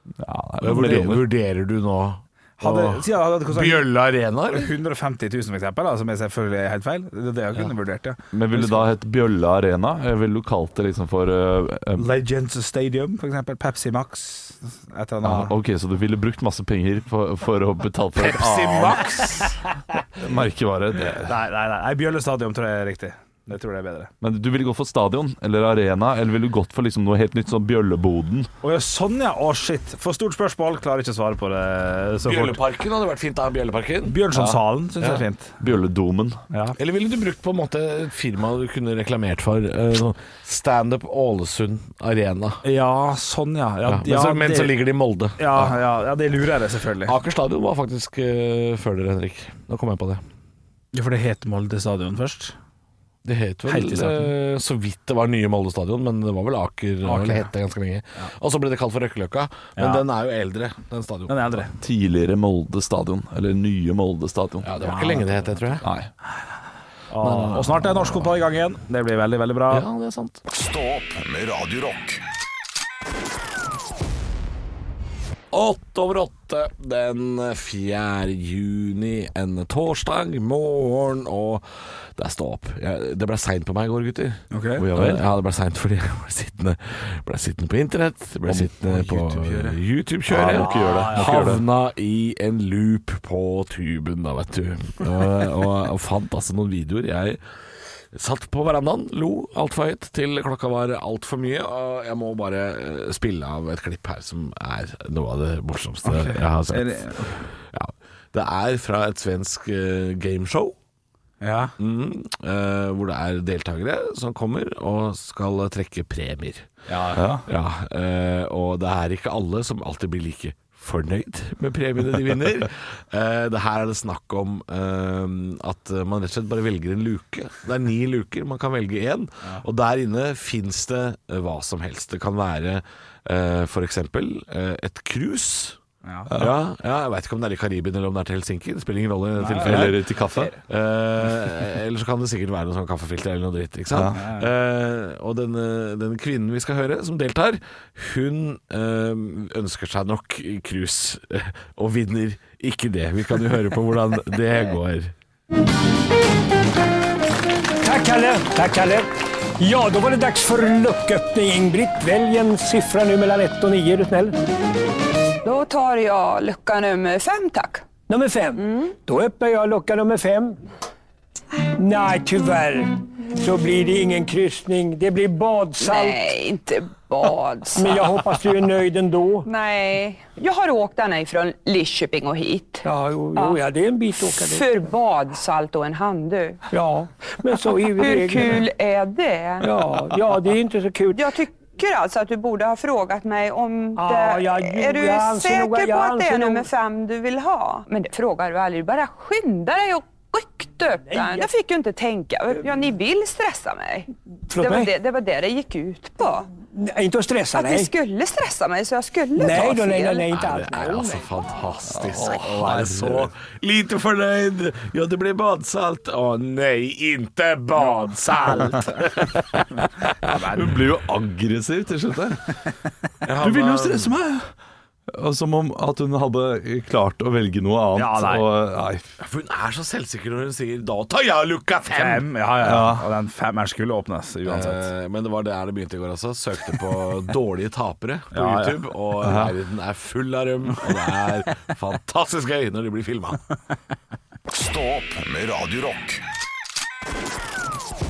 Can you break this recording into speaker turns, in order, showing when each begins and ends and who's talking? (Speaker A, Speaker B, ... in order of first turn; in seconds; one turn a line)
Speaker A: 0.2-1.3
Speaker B: 0.6-4.7
Speaker C: 2.6-3.9
Speaker C: 4.5-8.9
Speaker A: 8.3-12.1
Speaker C: 12.0-15.5
Speaker A: 15.2-19.2
Speaker B: 18.2-19.6
Speaker A: 20.2-21.3
Speaker C: 21.0-24.1
Speaker A: 24.2-28.5
Speaker C: 28.6-32.6
Speaker B: 32.2-34.2
Speaker C: 34.1-35.6
Speaker A: 35.6-36.4
Speaker C: 36.5-36.8
Speaker B: 36.8-42.6
Speaker C: 42.6-44.8
Speaker B: 43.9-45.8
Speaker C: 45.4-47.1
Speaker B: 47.0-50.2
Speaker C: 50.9-52.6
Speaker B: 53.2-61.6
Speaker C: 53.7-54.3
Speaker C: 57.0-57.5
Speaker C: 59.8-60.0
Speaker C: 61.3-61.7
Speaker A: 61.8-64.7
Speaker B: 64.6-65.8
Speaker C: 64.8-65.2
Speaker A: 65.8-66.1
Speaker C: 67.1-69.9
Speaker B: 67.2-68.1
Speaker B: 69.7-70.4
Speaker D: 70.5-72.2
Speaker B: 75.5-97.4
Speaker C: 84.5-84.8
Speaker A: 84.8-85.2
Speaker C: 88.5-89.8
Speaker C: 90.3-91.5
Speaker A: 90.3-91.6
Speaker B: 98.1-110.8
Speaker C: 106.0-107.3
Speaker C: 111.4-111.8
Speaker B: 111.8-116.7
Speaker C: 116.9-117.3
Speaker A: 117.2-117.4
Speaker B: 117.5-135.8
Speaker C: 136.1-136.3
Speaker A: 136.3-136.6
Speaker B: 136.3-140.0
Speaker C: 139.4-140.6
Speaker A: 139.6-140.5
Speaker B: 140.6-155.1
Speaker A: 143.9-144.2
Speaker C: 144.1-144.5
Speaker E: 157.8-164.4
Speaker F: 165.4-167.9
Speaker E: 168.1-170.6
Speaker F: 168.6-168.9
Speaker E: 171.8-176.3
Speaker F: 175.8-178.3
Speaker E: 177.8-179.5
Speaker F: 179.4-183.6
Speaker E: 182.8-184.7
Speaker F: 184.2-186.6
Speaker E: 186.7-188.7
Speaker F: 187.8-190.2
Speaker E: 189.6-191.3
Speaker F: 191.1-206.5
Speaker E: 194.0-196.7
Speaker E: 201.1-201.5
Speaker E: 204.5-204.9
Speaker E: 206.7-207.9
Speaker F: 207.5-210.3
Speaker E: 209.4-211.2
Speaker B: 210.3-219.6
Speaker A: 211.9-213.3
Speaker C: 218.5-218.9
Speaker C: 220.2-220.7
Speaker A: 220.5-222.6
Speaker B: 223.2-224.1
Speaker A: 223.4-224.5
Speaker A: 225.1-229.2
Speaker C: 227.9-228.5
Speaker B: 229.2-232.3
Speaker C: 231.9-234.9
Speaker A: 232.6-233.1
Speaker B: 234.4-243.4
Speaker C: 238.3-238.9
Speaker A: 239.2-239.6
Speaker D: 244.5-246.2